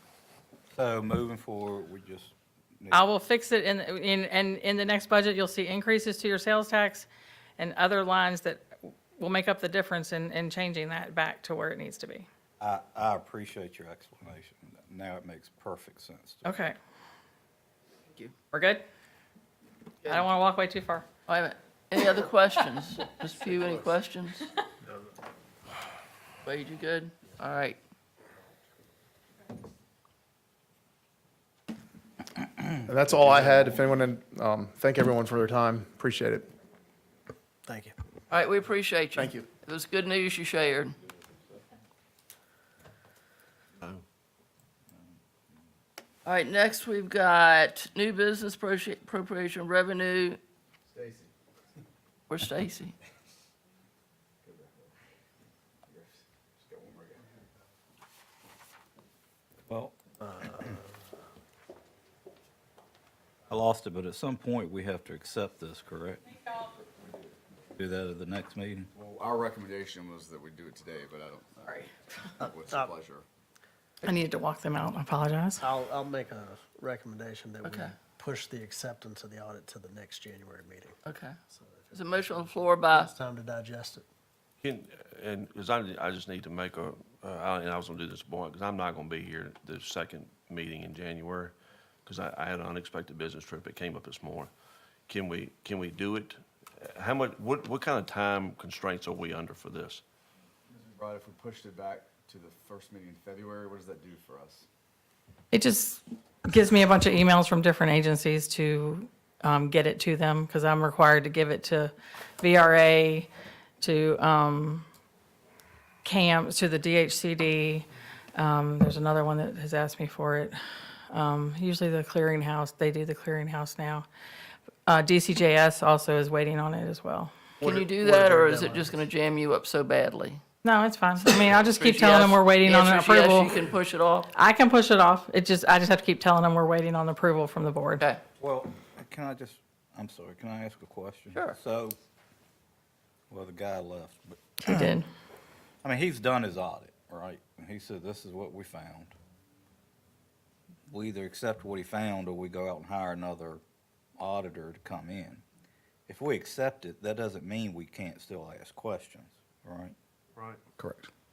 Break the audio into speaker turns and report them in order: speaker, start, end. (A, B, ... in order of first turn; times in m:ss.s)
0:00.7-0:03.0 A
0:02.9-0:07.1 B
0:07.6-0:12.3 B
0:12.6-0:16.6 A
0:16.4-0:16.8 B
0:18.5-0:18.8 B
0:20.0-0:21.0 B
0:21.3-0:24.4 C
0:26.4-0:27.8 C
0:32.8-0:36.5 D
0:37.6-0:37.9 E
0:38.3-0:41.0 C
0:39.2-0:39.4 E
0:46.2-0:50.4 C
0:50.9-0:51.3 F
0:52.3-0:52.9 C
0:54.4-0:54.9 F
0:55.8-0:57.3 F
0:59.7-1:00.0 A
1:00.2-1:00.8 E
1:03.5-1:06.4 A
1:07.7-1:08.9 A
1:08.9-1:13.2 F
1:14.0-1:15.6 B
1:15.6-1:21.0 E
1:17.6-1:17.9 C
1:21.0-1:21.4 C
1:21.5-1:24.1 E
1:21.9-1:23.1 C
1:24.6-1:31.5 G
1:32.0-1:34.5 G
1:35.1-1:40.0 G
1:40.7-1:44.6 F
1:45.5-1:53.3 B
1:53.8-1:54.8 B
1:56.0-2:04.0 B
2:04.8-2:07.3 B
2:07.6-2:08.8 G
2:07.6-2:10.4 C
2:10.6-2:13.7 B
2:11.4-2:14.3 C
2:14.3-2:18.1 B
2:18.4-2:22.0 A
2:23.3-2:24.9 A
2:24.6-2:25.1 B
2:25.8-2:29.1 A
2:30.9-2:33.6 A
2:34.2-2:35.4 A
2:36.1-2:39.9 A